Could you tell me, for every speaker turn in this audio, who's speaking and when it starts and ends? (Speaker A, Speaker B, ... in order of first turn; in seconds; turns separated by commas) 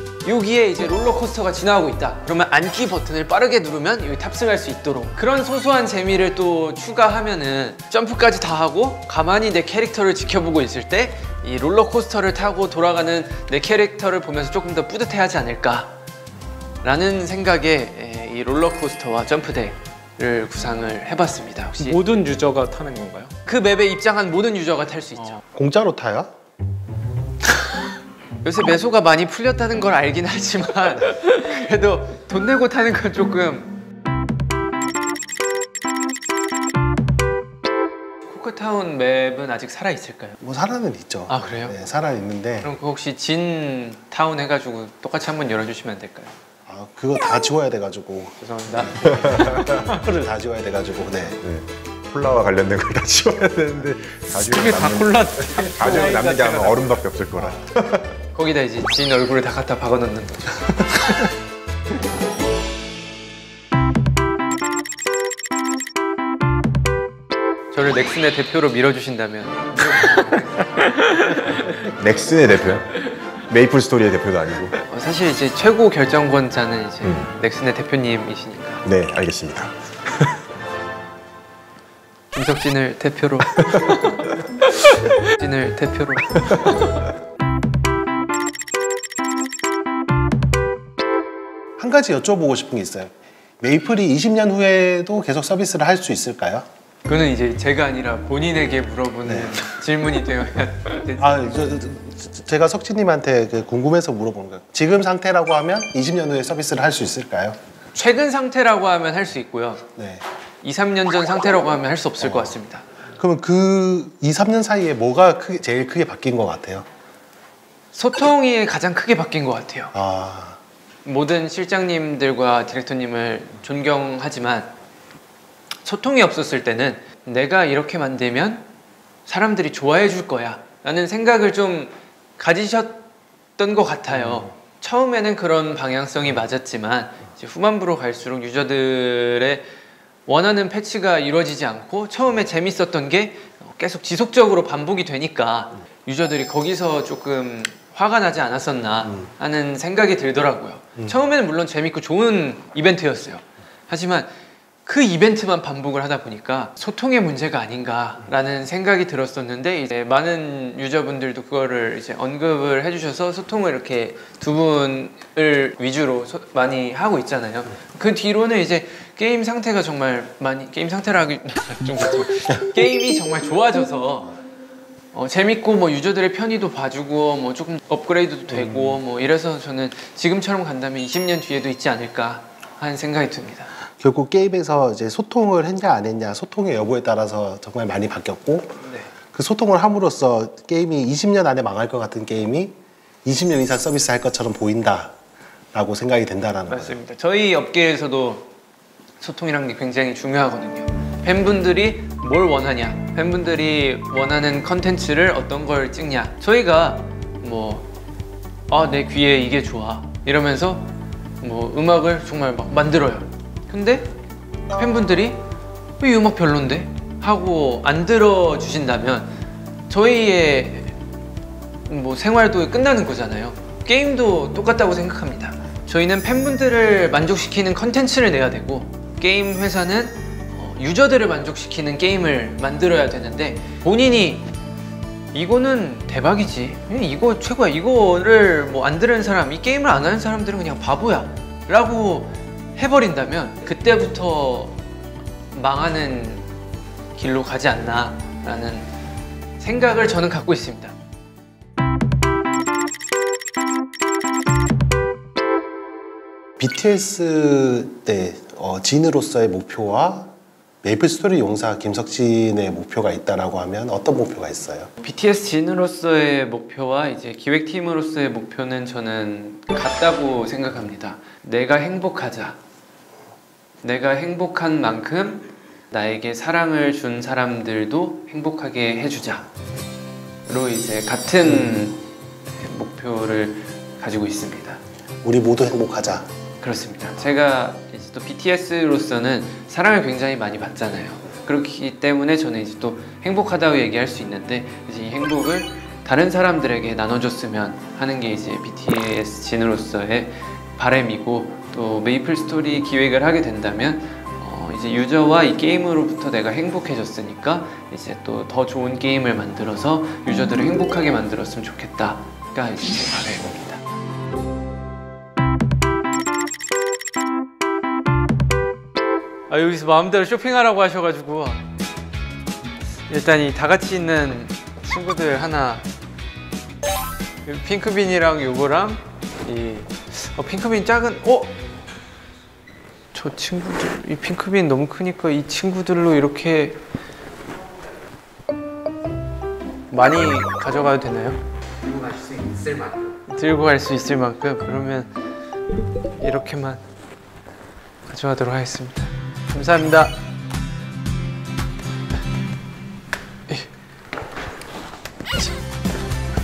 Speaker A: 0.2-15.9, Speaker A: 16.8-22.0, Speaker B: 21.9-23.3, Speaker A: 23.4-25.4, Speaker C: 25.5-26.3, Speaker A: 28.4-33.7, Speaker A: 38.3-40.4, Speaker C: 40.4-42.7, Speaker A: 41.3-41.8, Speaker A: 42.6-46.3, Speaker C: 46.7-48.4, Speaker A: 48.4-50.0, Speaker D: 49.1-49.7, Speaker C: 49.7-51.4, Speaker D: 51.4-58.1, Speaker B: 54.5-56.6, Speaker A: 55.5-56.8, Speaker A: 58.3-61.3, Speaker A: 67.7-71.8, Speaker D: 71.7-74.7, Speaker A: 74.9-78.8, Speaker D: 77.0-77.3, Speaker D: 78.8-80.3, Speaker A: 82.3-84.4, Speaker D: 83.7-84.0, Speaker A: 85.1-86.9, Speaker C: 91.8-96.7, Speaker A: 97.0-101.6, Speaker C: 99.2-99.5, Speaker C: 101.2-107.6, Speaker A: 107.9-109.8, Speaker C: 110.0-110.2, Speaker A: 110.6-112.9, Speaker C: 112.2-112.5, Speaker C: 113.2-116.8, Speaker A: 117.9-119.9, Speaker C: 119.9-120.6, Speaker A: 121.0-124.7, Speaker A: 125.8-128.6, Speaker A: 129.2-133.0, Speaker A: 133.6-139.7, Speaker A: 140.3-154.3, Speaker A: 154.8-174.3, Speaker A: 175.1-183.7, Speaker C: 178.6-179.0, Speaker C: 184.0-188.8, Speaker A: 188.8-189.1, Speaker C: 189.3-195.1, Speaker C: 195.7-197.0, Speaker A: 196.7-198.5, Speaker A: 199.2-207.9, Speaker A: 208.7-210.9, Speaker A: 211.4-214.1, Speaker A: 214.8-215.4, Speaker A: 216.0-219.3, Speaker A: 219.9-220.9, Speaker A: 221.9-234.5, Speaker A: 235.3-244.8, Speaker A: 245.5-246.5, Speaker A: 247.1-248.9, Speaker A: 249.6-250.9, Speaker C: 256.6-260.3, Speaker C: 260.8-264.9, Speaker A: 265.0-272.6, Speaker A: 273.8-279.5, Speaker A: 280.5-282.0, Speaker A: 282.6-284.8, Speaker C: 285.2-286.3, Speaker A: 286.6-313.8, Speaker A: 319.5-321.6, Speaker A: 323.1-325.9, Speaker A: 327.4-331.5, Speaker A: 333.1-336.8, Speaker A: 339.9-345.4, Speaker A: 346.2-346.8, Speaker A: 348.1-350.2